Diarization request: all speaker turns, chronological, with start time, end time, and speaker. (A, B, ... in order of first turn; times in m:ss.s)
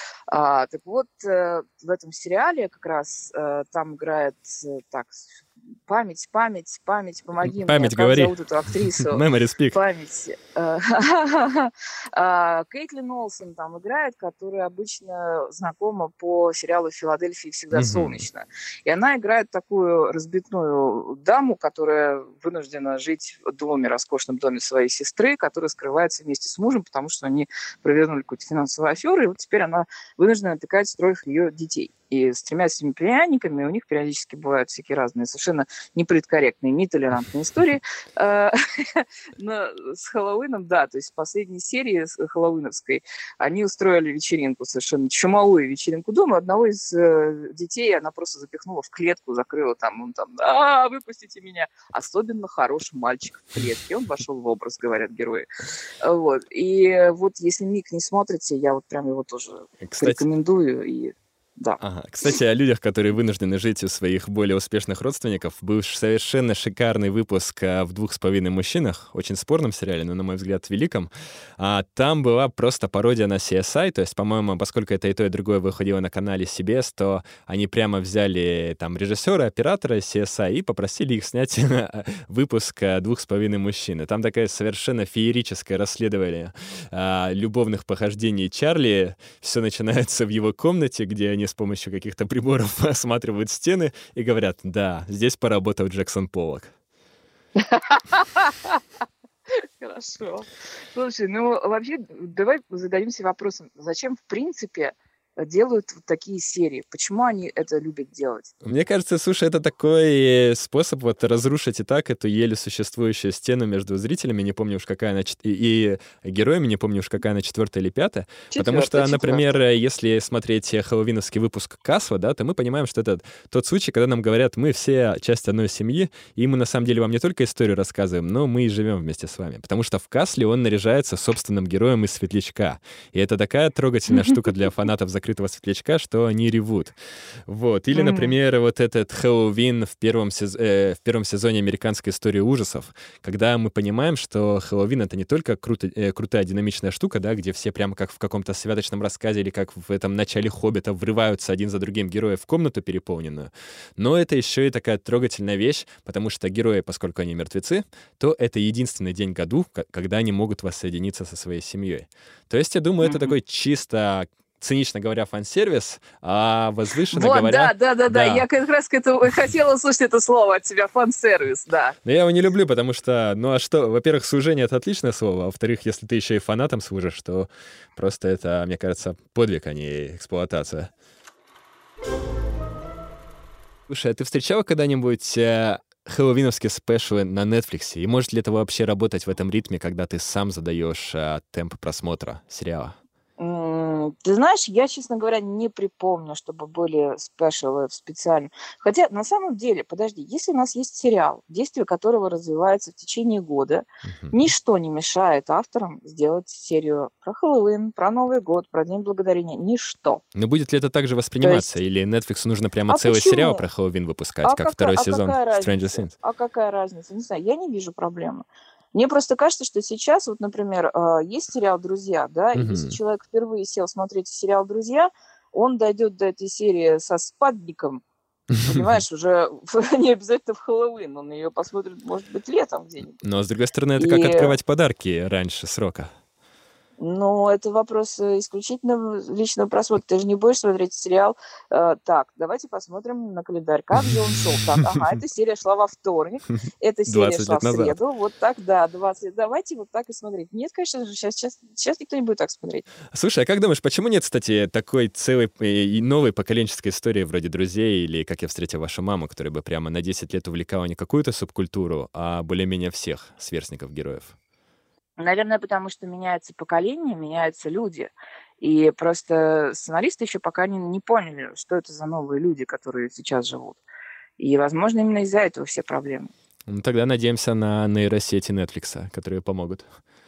0:00.3-0:55.5 A
0:07.4-0:09.8 B
0:17.7-0:18.2 B
0:56.0-1:01.8 A
0:59.8-1:00.2 B
1:01.8-1:36.7 B
1:37.6-1:38.8 A
1:39.5-1:48.5 A
1:48.6-2:17.0 B
1:58.5-1:59.6 A
2:17.5-2:48.4 B
2:17.9-2:18.4 A
2:43.0-2:43.4 A
2:47.1-2:52.0 A
2:52.0-3:00.9 B
3:03.9-3:13.0 B
3:13.4-3:30.2 A
3:24.0-3:24.5 B
3:30.4-3:36.1 B
3:31.4-3:31.7 A
3:32.9-3:33.6 A
3:34.4-3:48.0 A
3:42.6-3:43.0 B
3:48.5-3:48.8 B
3:48.6-3:53.2 A
3:53.2-3:56.1 B
3:54.0-3:54.6 A
3:57.0-4:12.9 A
4:04.0-4:05.1 B
4:07.1-4:08.0 B
4:13.1-4:24.3 B
4:25.2-4:33.8 A
4:34.4-4:36.3 A
4:36.7-4:39.9 B